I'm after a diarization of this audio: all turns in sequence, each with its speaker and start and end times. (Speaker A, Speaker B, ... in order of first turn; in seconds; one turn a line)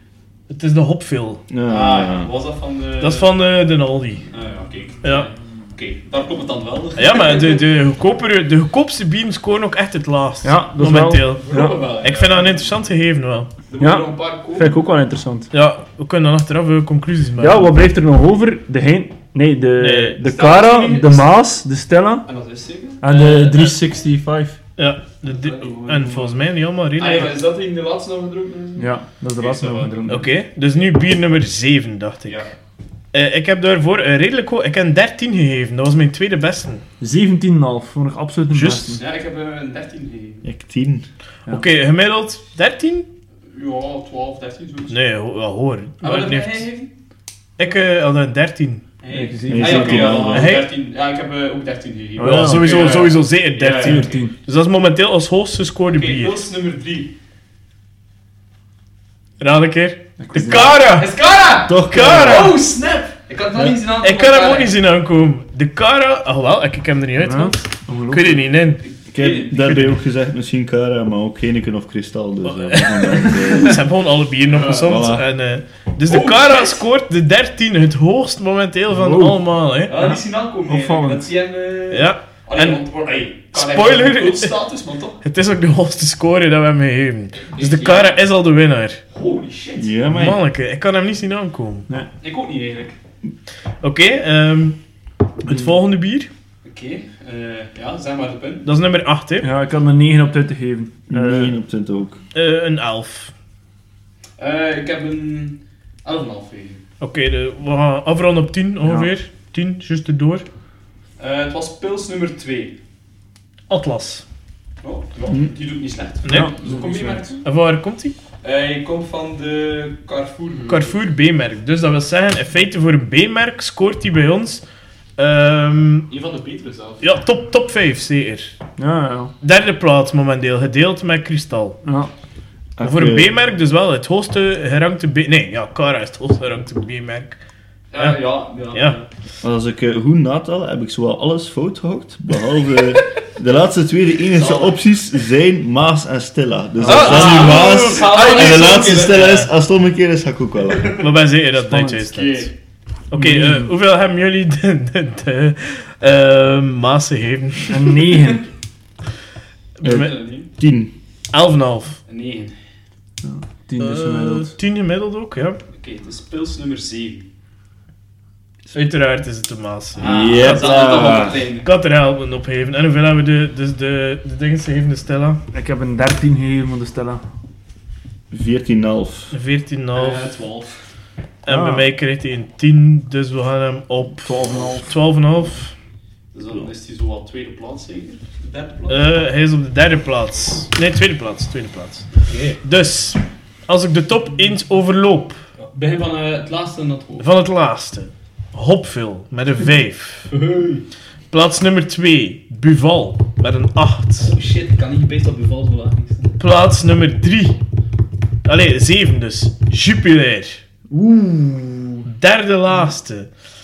Speaker A: 0.5-1.4
Speaker B: 1.5-2.3
Speaker C: 1.7-3.3
Speaker A: 3.0-4.2
Speaker C: 4.3-7.6
Speaker A: 5.0-5.3
Speaker A: 7.0-13.5
Speaker D: 10.4-11.8
Speaker C: 11.3-12.7
Speaker C: 13.7-14.8
Speaker D: 13.8-15.5
Speaker A: 15.5-17.7
Speaker D: 17.4-22.3
Speaker A: 19.8-20.2
Speaker C: 20.2-21.3
Speaker C: 22.2-23.6
Speaker D: 23.0-24.6
Speaker A: 24.8-27.4
Speaker C: 25.3-26.4
Speaker C: 27.0-30.2
Speaker D: 28.8-30.3
Speaker A: 30.1-32.5
Speaker C: 32.3-32.5
Speaker A: 33.1-36.8
Speaker D: 37.0-39.0
Speaker A: 38.5-39.0
Speaker C: 39.0-40.4
Speaker B: 40.4-41.1
Speaker A: 41.5-43.1
Speaker C: 43.5-44.9
Speaker A: 44.9-46.6
Speaker C: 46.0-46.9
Speaker A: 47.6-48.8
Speaker C: 49.0-54.2
Speaker D: 49.1-50.4
Speaker B: 49.5-50.5
Speaker A: 50.0-50.7
Speaker D: 52.2-52.9
Speaker A: 52.2-56.5
Speaker D: 53.8-54.3
Speaker C: 55.9-57.1
Speaker A: 59.4-61.1
Speaker D: 60.2-60.7
Speaker C: 60.3-64.7
Speaker B: 61.7-62.5
Speaker A: 61.9-62.6
Speaker A: 64.0-68.8
Speaker D: 67.2-68.4
Speaker C: 68.9-69.5
Speaker B: 69.1-73.8
Speaker A: 69.5-70.0
Speaker A: 72.5-80.0
Speaker C: 73.3-73.7
Speaker C: 74.5-75.1
Speaker B: 74.8-75.2
Speaker C: 76.1-76.8
Speaker D: 78.9-81.2
Speaker C: 79.9-85.2
Speaker A: 81.9-82.8
Speaker A: 83.5-84.5
Speaker A: 85.2-89.0
Speaker C: 87.5-88.2
Speaker C: 89.1-89.9
Speaker B: 89.8-90.4
Speaker A: 90.1-91.9
Speaker C: 92.2-93.0
Speaker A: 93.8-94.8
Speaker A: 95.4-96.3
Speaker C: 96.6-98.7
Speaker A: 98.6-99.5
Speaker D: 99.4-101.5
Speaker B: 101.1-102.2
Speaker A: 102.3-103.3
Speaker C: 104.4-106.8
Speaker A: 107.0-110.4
Speaker D: 108.8-109.1
Speaker C: 111.2-112.8
Speaker A: 113.7-114.2
Speaker C: 114.8-117.4
Speaker A: 116.2-116.5
Speaker D: 116.2-117.3
Speaker A: 117.4-118.2
Speaker C: 118.4-121.0
Speaker A: 120.7-124.6
Speaker A: 125.2-126.1
Speaker C: 126.1-127.0
Speaker A: 127.0-128.5
Speaker D: 128.8-129.3
Speaker A: 129.4-131.8
Speaker D: 131.8-132.1
Speaker B: 132.8-133.3
Speaker A: 132.8-137.4
Speaker C: 137.9-139.1
Speaker B: 139.4-150.9
Speaker C: 144.3-144.8
Speaker C: 146.8-149.5
Speaker A: 146.8-149.5
Speaker C: 150.7-151.1
Speaker A: 150.9-152.5
Speaker D: 151.7-152.1
Speaker C: 152.1-152.5
Speaker A: 153.1-157.9
Speaker D: 153.1-153.7
Speaker D: 157.7-158.4
Speaker A: 159.8-160.1
Speaker C: 159.8-160.5
Speaker B: 159.8-160.9
Speaker A: 161.3-162.0
Speaker C: 162.1-162.5
Speaker D: 163.2-164.5
Speaker A: 163.8-165.6
Speaker C: 165.7-167.3
Speaker A: 168.7-175.4
Speaker B: 170.0-171.4
Speaker C: 170.0-171.7
Speaker D: 175.5-177.2
Speaker B: 178.3-179.3
Speaker A: 179.3-180.3
Speaker C: 179.9-180.8
Speaker A: 181.4-185.7
Speaker D: 181.5-181.9
Speaker D: 184.2-184.9
Speaker C: 186.3-189.0
Speaker A: 188.9-195.4
Speaker C: 192.3-192.6
Speaker C: 195.6-197.3
Speaker A: 197.2-200.3
Speaker C: 200.3-200.8
Speaker A: 201.3-204.3
Speaker C: 204.2-206.4
Speaker A: 206.4-207.6
Speaker A: 208.4-210.6
Speaker D: 210.9-212.1
Speaker A: 212.1-213.3